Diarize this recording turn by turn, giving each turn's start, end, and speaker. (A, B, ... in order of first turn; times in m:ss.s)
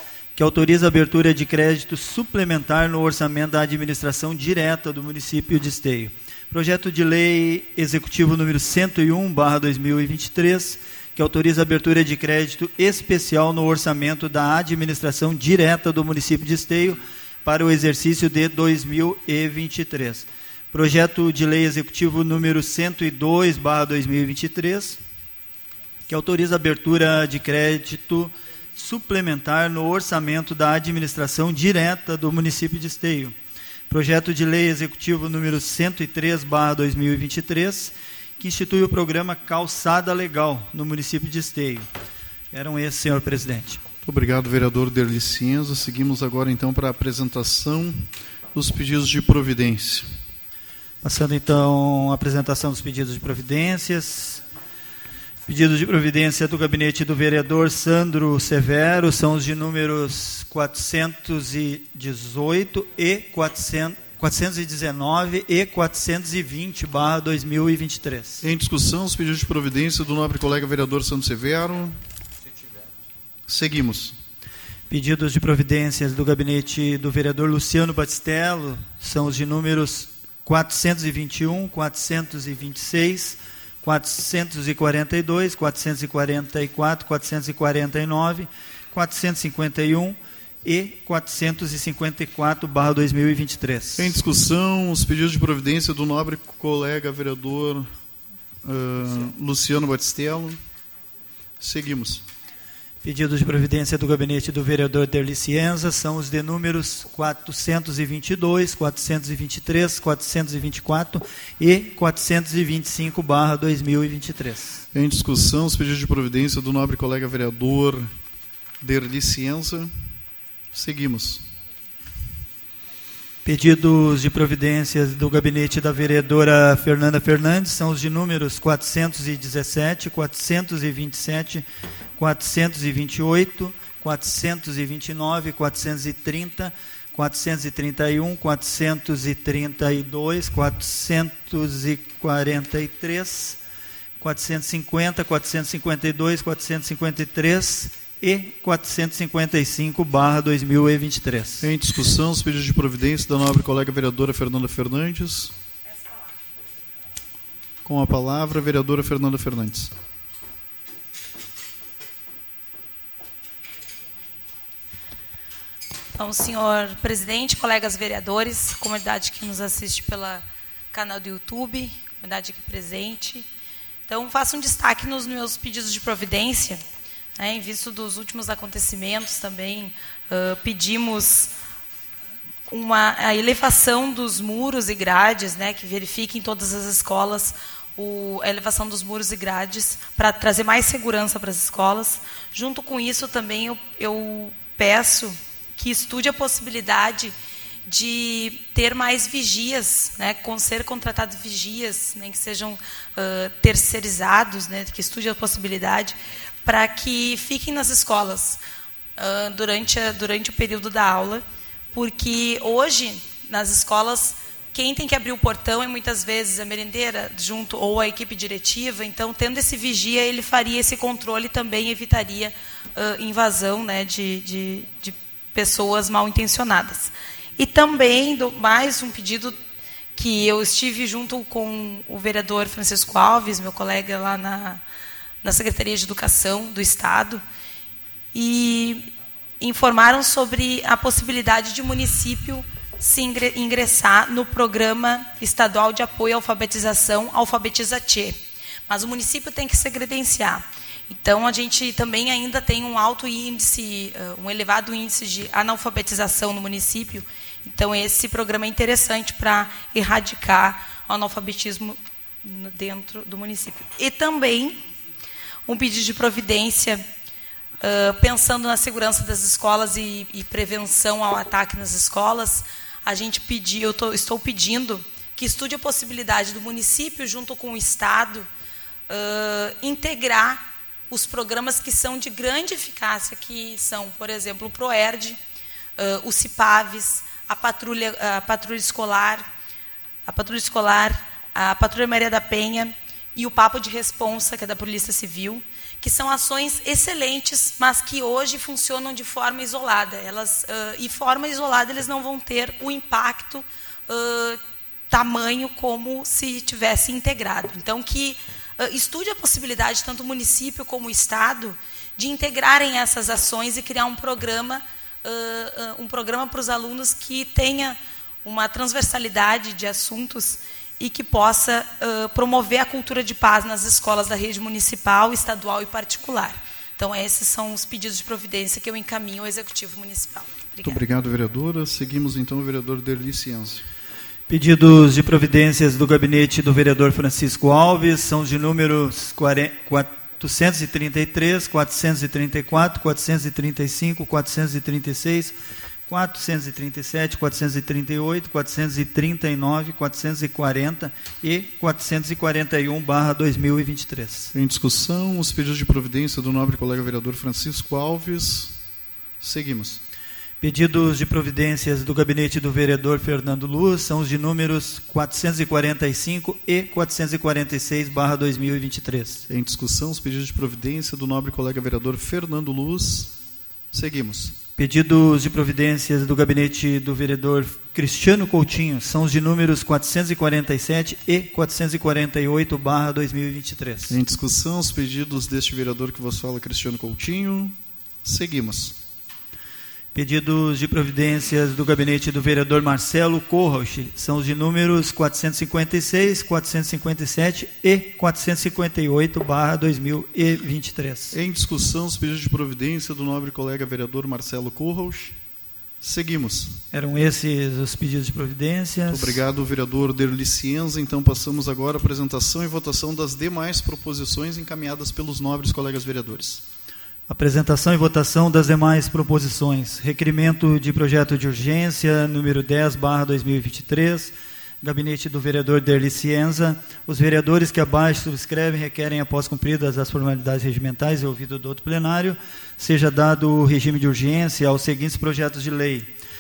0:00.4-0:25.0 A
0:26.1-0:33.4 A
0:33.9-0:41.9 A
0:42.5-0:43.8 A
0:44.0-0:50.1 B
0:51.0-0:54.4 A
0:55.5-1:08.4 A
1:08.4-1:12.0 B
1:13.5-1:14.2 B
1:14.9-1:34.1 A
1:34.0-1:37.9 B
1:38.6-1:40.6 B
1:41.6-1:42.2 B
1:43.0-1:54.8 A
1:54.9-1:58.1 B
1:58.8-1:59.9 B
2:00.7-2:01.4 B
2:03.4-2:11.6 A
2:12.2-2:23.6 A
2:24.2-2:31.6 A
2:31.6-2:35.5 B
2:37.8-2:39.9 B
2:46.1-2:53.5 C
2:54.1-2:56.8 C
2:57.4-3:01.5 C
3:02.7-3:17.3 C
3:17.9-3:28.6 C
3:29.2-3:49.6 C
3:50.2-3:54.8 C
3:55.4-3:57.4 C
3:58.3-3:59.1 C
3:59.6-4:24.8 C
4:25.7-4:27.0 C
4:27.8-4:38.5 C
4:39.1-4:45.4 C
4:46.0-4:49.5 C
4:50.2-5:31.0 C
5:30.8-5:33.8 B
5:34.5-5:45.5 A
5:46.1-5:54.5 A
5:54.5-5:58.8 B
5:59.4-6:00.0 B
6:00.6-6:09.4 A
6:09.5-6:13.3 B
6:13.9-6:14.5 B
6:14.8-6:24.1 A
6:24.1-6:29.0 B
6:30.1-6:41.3 A
6:41.3-6:45.4 B
6:46.0-6:46.8 B
6:46.9-6:49.4 A
6:49.1-6:56.6 B
6:57.3-7:16.1 A